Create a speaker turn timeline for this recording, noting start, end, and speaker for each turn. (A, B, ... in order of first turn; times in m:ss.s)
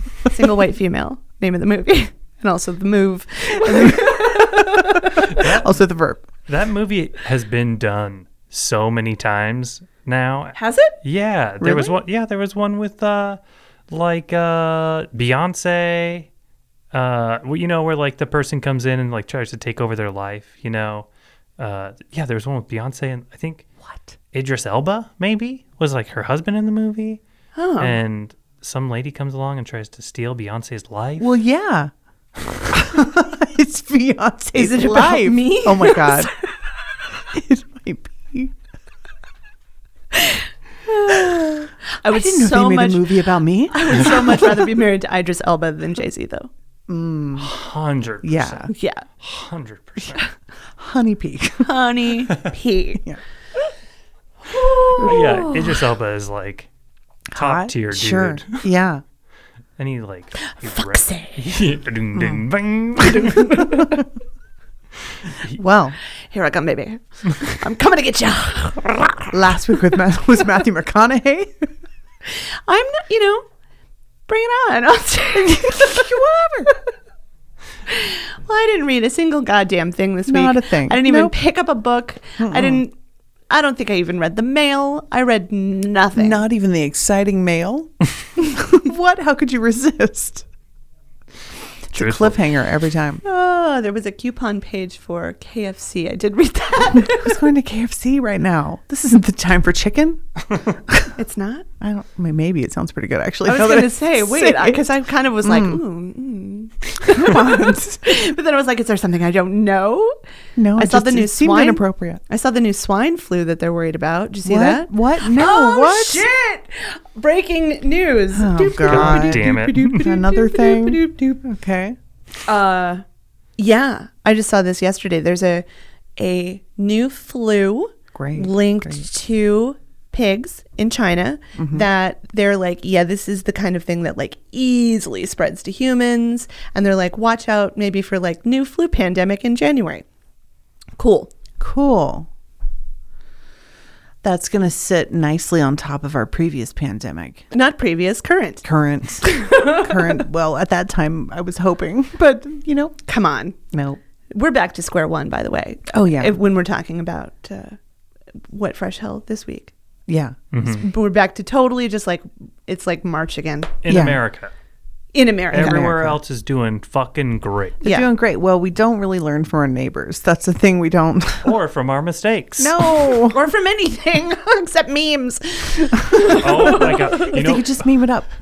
0:00.3-0:05.3 A
0:03.6-0:06.3 B
0:05.3-0:05.8 C
0:06.5-0:16.3 C
0:10.6-0:10.9 A
0:11.6-0:12.0 B
0:16.9-0:21.1 C
0:21.6-0:23.7 C
0:23.8-0:24.1 B
0:24.3-0:27.2 C
0:27.6-0:28.0 A
0:27.8-0:31.3 C
0:31.2-0:36.3 B
0:34.6-0:36.3 A
0:37.3-0:38.5 B
0:40.2-0:46.5 A
0:41.1-0:41.5 B
0:42.1-0:44.5 B
0:46.9-0:47.5 B
0:47.4-0:50.2 C
0:48.2-0:48.7 B
0:48.7-0:49.0 A
0:50.8-0:51.7 B
0:51.6-0:53.0 A
0:54.5-0:55.8 A
0:55.0-0:56.7 C
0:57.3-0:59.0 B
0:57.4-0:58.6 C
0:59.8-1:03.7 C
1:00.5-1:01.4 A
1:02.2-1:02.4 B
1:03.1-1:04.0 A
1:03.7-1:03.9 B
1:05.5-1:06.0 B
1:06.3-1:09.4 A
1:09.3-1:11.7 B
1:12.3-1:13.5 A
1:14.3-1:16.1 A
1:15.3-1:16.7 B
1:17.9-1:22.9 A
1:20.3-1:21.4 B
1:22.4-1:22.8 B
1:23.5-1:26.4 A
1:26.2-1:30.5 B
1:31.9-1:33.2 B
1:31.9-1:32.4 C
1:33.2-1:37.4 A
1:37.0-1:41.1 B
1:41.2-1:41.7 A
1:41.8-1:44.9 B
1:43.4-1:50.2 A
1:45.4-1:45.8 B
1:47.0-1:48.1 B
1:50.6-1:52.2 B
1:50.8-2:01.4 A
1:54.4-1:56.3 B
1:58.3-2:02.0 B
1:58.8-2:00.1 C
2:02.5-2:03.0 A
2:03.6-2:20.0 A
2:08.2-2:09.1 B
2:11.6-2:11.9 B
2:21.0-2:21.3 A
2:21.6-2:22.3 B
2:24.2-2:27.4 B
2:27.5-2:28.6 A
2:28.6-2:33.0 B
2:29.2-2:30.1 A
2:33.1-2:33.6 A
2:33.7-2:34.0 B
2:34.3-2:37.8 A
2:35.9-2:36.4 B
2:38.5-2:39.7 A
2:40.1-2:40.4 B
2:40.5-2:40.8 C
2:40.7-2:43.7 A
2:43.8-2:44.5 C
2:43.9-2:44.2 B
2:45.1-2:45.9 A
2:45.5-2:46.2 B
2:45.5-2:47.8 C
2:47.8-2:48.1 A
2:47.8-2:51.6 B
2:51.4-2:53.0 C
2:52.6-2:53.4 B
2:53.2-2:57.3 A
2:56.2-2:57.8 C
2:57.2-2:58.3 B